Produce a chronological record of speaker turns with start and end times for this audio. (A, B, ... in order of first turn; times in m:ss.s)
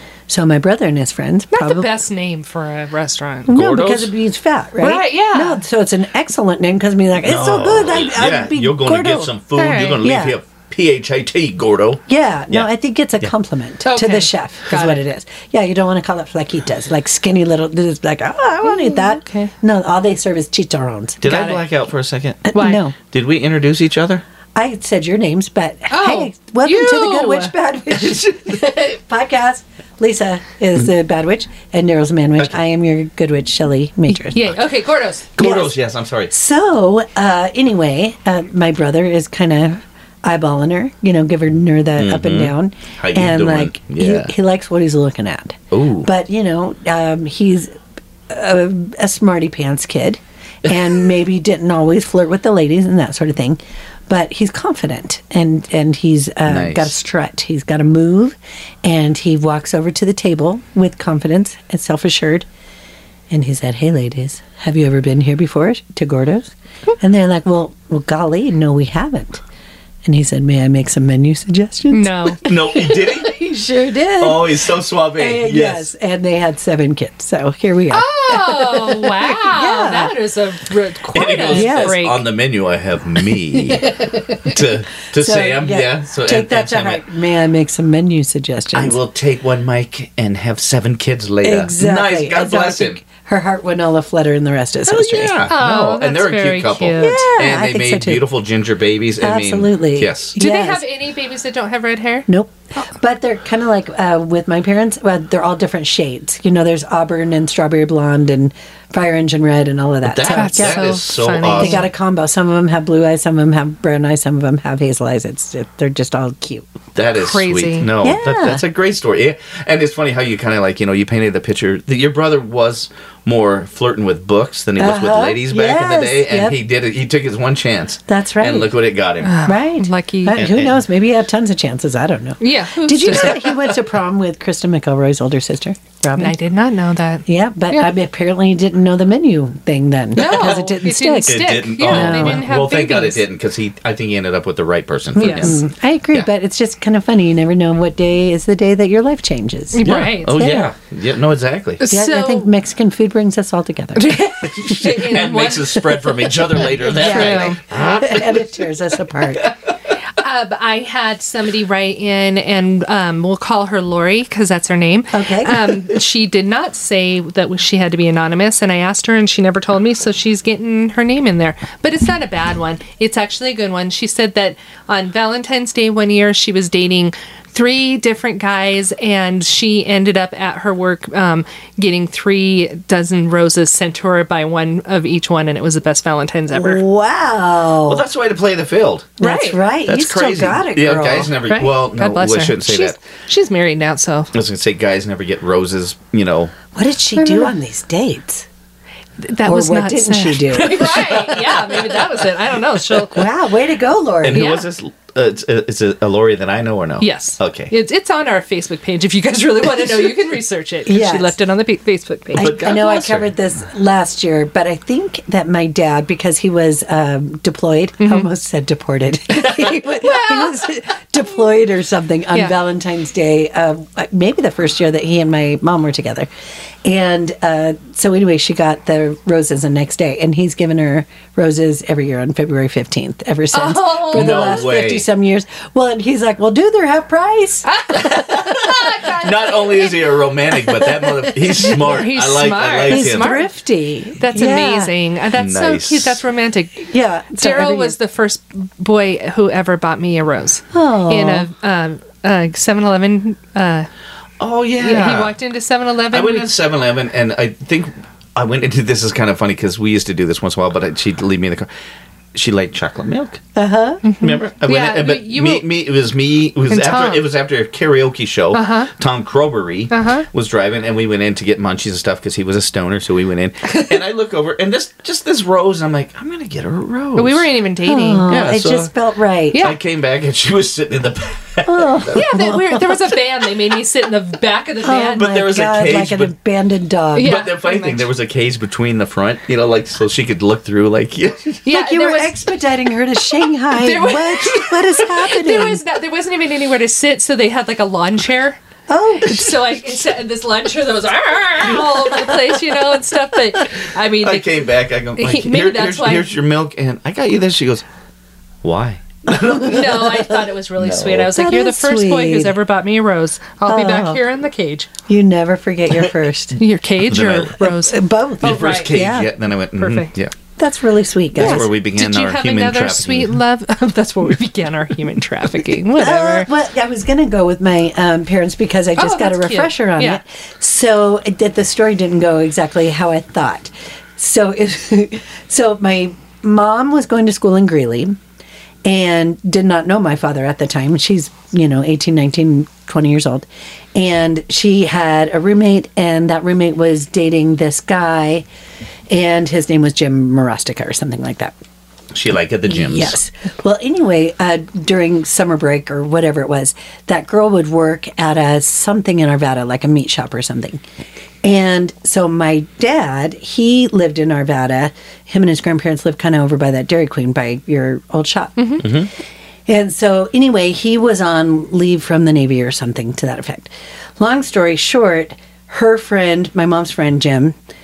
0:00.3-0:01.9 A
0:01.5-0:03.5 B
0:03.5-0:04.1 C
0:03.5-0:09.3 A
0:04.8-0:05.6 B
0:07.2-0:13.3 C
0:09.6-0:10.0 B
0:10.0-0:10.4 A
0:12.1-0:21.3 A
0:13.8-0:15.0 B
0:18.6-0:19.5 B
0:21.2-0:24.2 C
0:21.2-0:21.6 B
0:22.5-0:23.0 A
0:22.5-0:22.8 B
0:24.5-0:34.4 A
0:25.9-0:27.5 B
0:28.0-0:28.6 C
0:34.1-0:35.3 B
0:35.4-0:36.3 C
0:35.4-0:35.8 A
0:36.3-0:47.7 A
0:42.0-0:44.3 C
0:45.7-0:46.1 C
0:48.3-1:02.4 A
0:56.4-0:57.0 C
1:03.3-1:09.4 A
1:10.0-1:14.6 A
1:11.9-1:12.4 B
1:12.4-1:13.4 C
1:14.2-1:15.9 C
1:15.1-1:20.1 A
1:17.9-1:22.2 B
1:21.1-1:23.9 C
1:21.4-1:22.0 A
1:23.7-1:24.6 A
1:24.4-1:27.0 C
1:25.2-1:29.0 A
1:28.7-1:33.0 C
1:31.4-1:35.4 A
1:34.9-1:40.4 C
1:35.4-1:37.2 B
1:37.0-1:38.2 A
1:39.2-1:40.8 A
1:40.4-1:42.3 B
1:42.3-1:51.0 A
1:50.0-1:51.8 C
1:50.3-1:51.8 B
1:51.5-1:56.7 A
1:56.9-2:09.4 C
1:57.1-1:57.9 B
1:58.0-1:58.6 A
2:04.8-2:06.6 A
2:08.1-2:08.7 A
2:09.2-2:10.4 B
2:09.4-2:16.4 A
2:10.3-2:10.8 C
2:12.4-2:13.5 B
2:16.2-2:17.9 B
2:17.3-2:22.4 A
2:20.2-2:23.2 B
2:20.2-2:20.6 C
2:21.2-2:26.3 C
2:25.2-2:30.7 A
2:25.2-2:25.5 B
2:29.7-2:30.4 B
2:29.8-2:31.8 C
2:31.8-2:32.5 B
2:31.9-2:34.8 A
2:34.0-2:36.0 B
2:34.6-2:38.6 C
2:36.8-2:37.6 B
2:36.9-2:39.5 A
2:40.2-3:06.8 B
2:45.1-2:45.8 A
3:06.5-3:08.0 A
3:07.9-3:09.1 C
3:09.2-3:09.6 B
3:09.2-3:11.3 A
3:09.8-3:13.0 C
3:11.5-3:14.3 B
3:14.3-3:16.5 C
3:16.7-3:18.4 A
3:17.2-3:17.5 B
3:19.2-3:23.2 B
3:19.4-3:21.4 A
3:20.7-3:21.7 C
3:23.0-3:24.5 A
3:24.2-3:27.7 C
3:24.3-3:24.6 B
3:27.0-3:32.8 B
3:30.8-3:31.4 A
3:32.3-3:33.3 C
3:32.3-3:46.3 A
3:38.0-3:38.3 B
3:39.8-3:40.7 B
3:46.8-3:57.6 A
3:53.5-3:54.6 B
3:54.1-3:55.1 C
3:57.6-4:00.0 B
3:57.9-4:03.4 C
4:01.5-4:03.5 B
4:02.9-4:04.9 A
4:04.2-4:13.9 B
4:05.3-4:06.2 C
4:06.8-4:08.0 A
4:10.7-4:11.5 A
4:14.4-4:15.4 C
4:14.8-4:16.5 B
4:16.1-4:21.7 C
4:22.3-4:23.4 C
4:23.6-4:24.0 A
4:24.0-4:25.7 B
4:24.2-4:37.5 C
4:26.7-4:27.2 B
4:28.5-4:28.9 B
4:29.9-4:30.3 B
4:37.2-4:38.2 B
4:37.8-4:39.6 A
4:38.3-4:38.9 C
4:39.5-4:42.3 C
4:41.6-4:43.0 A
4:42.1-4:45.3 B
4:44.8-4:47.4 A
4:45.2-4:46.3 C
4:47.2-4:48.0 B
4:47.2-4:51.6 C
4:51.6-4:52.3 B
4:51.7-4:55.8 A
4:53.7-4:58.6 B
4:58.9-4:59.6 A
4:59.2-5:06.3 B
5:04.2-5:07.8 C
5:08.6-5:10.2 C
5:09.3-5:10.3 A
5:09.6-5:14.9 B
5:10.8-5:11.3 C
5:11.3-5:12.6 A
5:13.6-5:14.2 A
5:15.1-5:16.6 A
5:16.6-5:19.0 B
5:17.0-5:17.5 C
5:17.6-5:19.3 A
5:18.4-5:20.3 C
5:19.8-5:20.1 B
5:20.6-5:21.7 A
5:21.3-5:23.4 C
5:21.4-5:26.5 B
5:26.0-5:38.2 A
5:29.0-5:30.2 B
5:38.8-5:48.4 A
5:49.1-5:51.6 A
5:52.1-5:53.2 C
5:52.7-6:00.8 A
6:01.4-6:09.1 A
6:08.6-6:08.8 B
6:08.8-6:09.1 C
6:09.7-6:17.6 A